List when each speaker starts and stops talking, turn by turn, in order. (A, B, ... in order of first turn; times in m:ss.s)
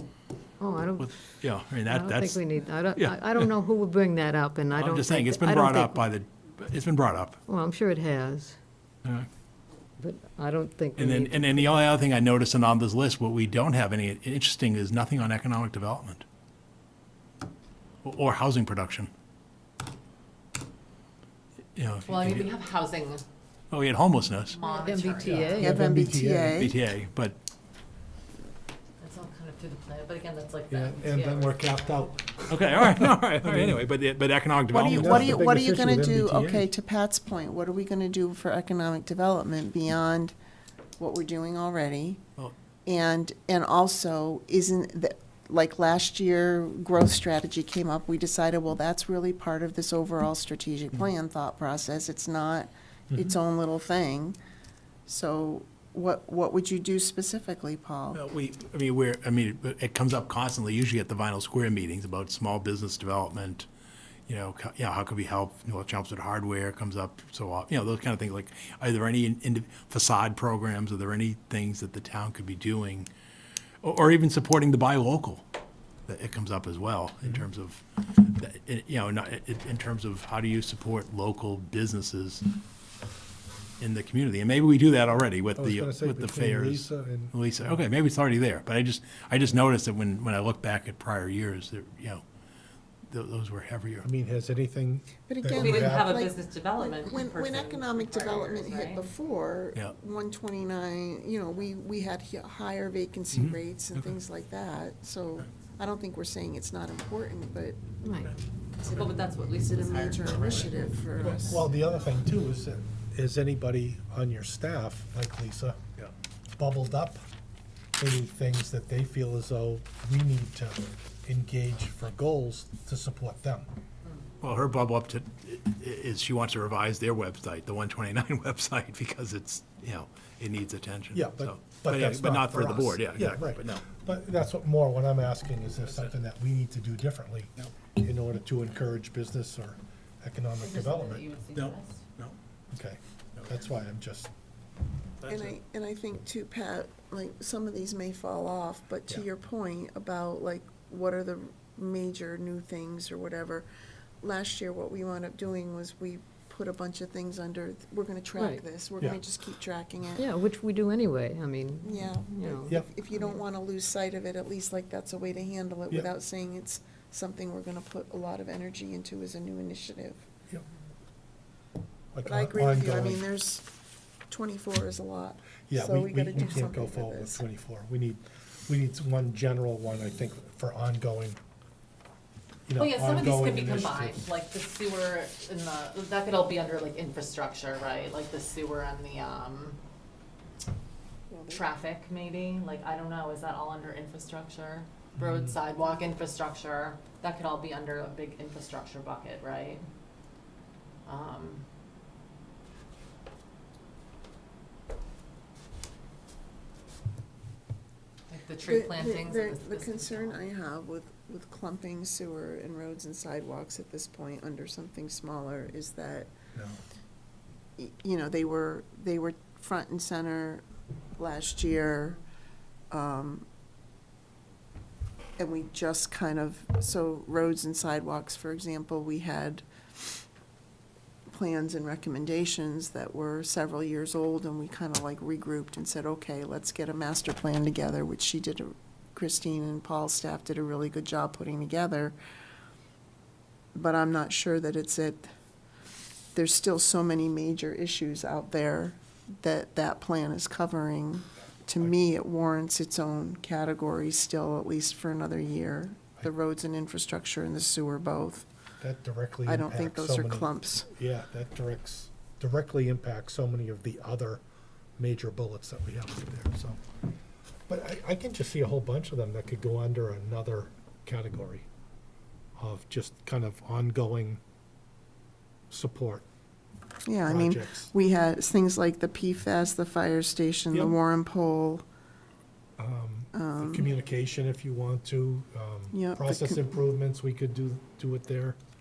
0:00.6-0:01.3 A
0:01.0-0:02.4 B
0:01.8-0:06.0 A
0:02.9-0:03.5 B
0:04.7-0:07.4 B
0:07.5-0:08.6 A
0:10.0-0:11.7 A
0:11.0-0:16.2 B
0:18.0-0:19.1 B
0:21.7-0:22.5 B
0:22.0-0:23.2 C
0:23.7-0:24.6 B
0:24.5-0:25.7 C
0:24.6-0:25.8 A
0:25.2-0:26.7 D
0:25.6-0:26.7 E
0:26.5-0:27.4 B
0:29.0-0:32.1 C
0:30.7-0:33.8 D
0:32.5-0:35.4 B
0:34.7-0:40.3 E
0:34.8-0:36.7 D
0:41.0-0:42.2 E
0:42.8-0:54.4 E
0:55.0-0:58.2 E
0:58.1-1:03.7 B
1:04.3-1:13.1 B
1:13.8-1:15.4 B
1:16.1-1:22.4 B
1:23.8-1:32.2 B
1:25.6-1:27.3 D
1:33.1-1:34.1 B
1:34.0-1:36.2 D
1:35.3-1:47.9 E
1:35.5-1:39.0 C
1:43.3-1:43.6 B
1:48.0-1:48.3 A
1:48.8-1:51.6 E
1:48.8-1:51.7 C
1:51.2-1:55.8 D
1:56.6-1:57.2 D
1:58.0-2:03.7 D
2:04.4-2:13.9 B
2:11.1-2:21.2 D
2:15.8-2:16.2 B
2:20.6-2:22.0 C
2:21.5-2:22.4 B
2:22.7-2:24.3 D
2:23.4-2:23.6 B
2:25.2-2:25.5 B
2:25.3-2:33.7 E
2:34.2-2:40.3 E
2:38.4-2:38.6 A
2:40.2-2:43.4 A
2:41.8-2:50.3 E
2:52.1-2:53.2 D
2:52.2-2:53.6 E
2:54.3-2:57.4 E
2:55.7-3:01.4 D
3:02.7-3:04.3 D
3:02.8-3:09.8 C
3:11.3-3:11.6 E
3:11.5-3:19.8 C
3:15.2-3:15.5 D
3:21.0-3:21.6 C
3:28.3-3:30.4 C
3:28.6-3:36.3 E
3:37.8-3:40.6 E
3:41.2-3:42.2 E
3:42.9-3:43.4 E
3:45.4-3:49.6 E
3:51.3-4:02.2 E
4:03.7-4:05.2 E
4:06.3-4:18.4 E
4:18.8-4:24.4 D
4:19.4-4:20.9 E
4:25.0-4:26.8 D
4:27.7-4:31.6 D
4:32.6-4:34.4 D
4:35.7-4:36.2 D
4:37.0-4:41.8 E
4:37.2-4:37.9 D
4:42.8-4:48.6 D
4:43.3-4:43.9 E
4:45.9-4:46.6 E